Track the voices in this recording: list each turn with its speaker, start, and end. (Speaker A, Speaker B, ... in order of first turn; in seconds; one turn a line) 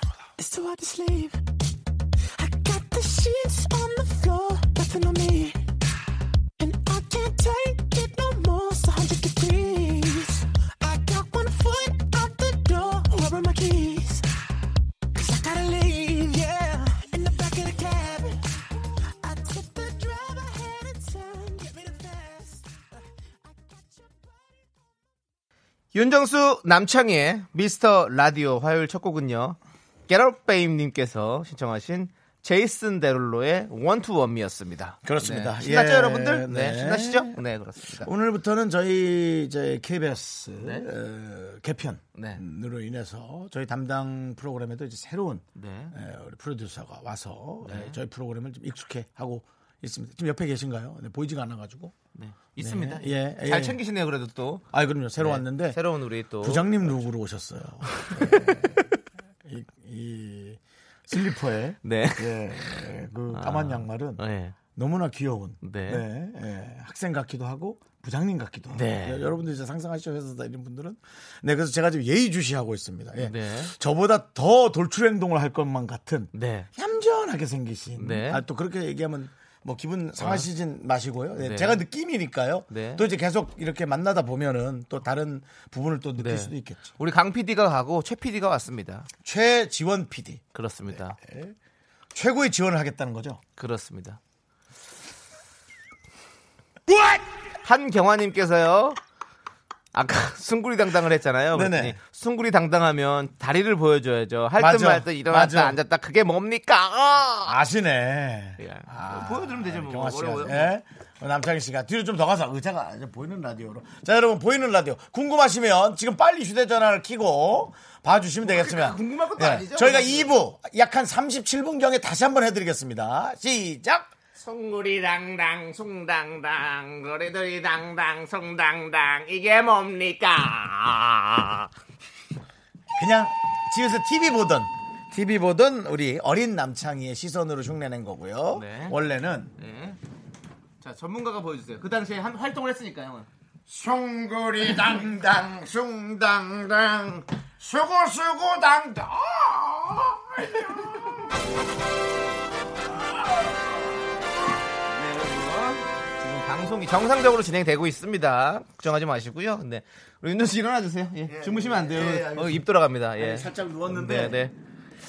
Speaker A: 0.4-1.4
Speaker A: 2.3-5.7
Speaker A: 6.6-14.4
Speaker A: 15.1-18.4
Speaker A: 19.2-22.8
Speaker A: 23.4-24.6
Speaker B: 25.9-38.1
Speaker C: 35.0-37.4
Speaker C: 37.9-52.0
Speaker B: 40.6-40.9
Speaker B: 42.1-42.4
Speaker B: 45.5-45.9
Speaker B: 47.6-48.0
Speaker B: 52.1-54.6
Speaker C: 52.6-53.8
Speaker C: 54.7-55.8
Speaker B: 55.2-57.0
Speaker C: 56.4-58.9
Speaker B: 58.0-58.6
Speaker C: 59.4-64.2
Speaker B: 61.8-64.6
Speaker C: 64.7-86.9
Speaker B: 65.6-66.0
Speaker B: 68.7-69.3
Speaker B: 73.2-73.7
Speaker B: 76.3-76.7
Speaker B: 78.0-78.4
Speaker B: 80.2-80.5
Speaker B: 81.4-81.8
Speaker B: 82.7-83.1
Speaker B: 86.2-89.1
Speaker C: 89.2-91.5
Speaker B: 90.5-91.2
Speaker C: 92.1-93.4
Speaker B: 93.6-94.2
Speaker C: 96.9-97.2
Speaker B: 97.6-99.0
Speaker B: 99.9-107.5
Speaker C: 101.5-102.0
Speaker C: 104.6-105.8
Speaker C: 107.4-124.1
Speaker B: 108.6-110.7
Speaker B: 118.4-120.4
Speaker B: 124.3-131.7
Speaker C: 132.9-139.5
Speaker B: 138.5-139.0
Speaker B: 139.6-140.0
Speaker B: 140.8-143.3
Speaker C: 143.7-151.2
Speaker C: 153.1-153.6
Speaker C: 154.9-155.8
Speaker B: 155.2-164.5
Speaker C: 161.3-164.4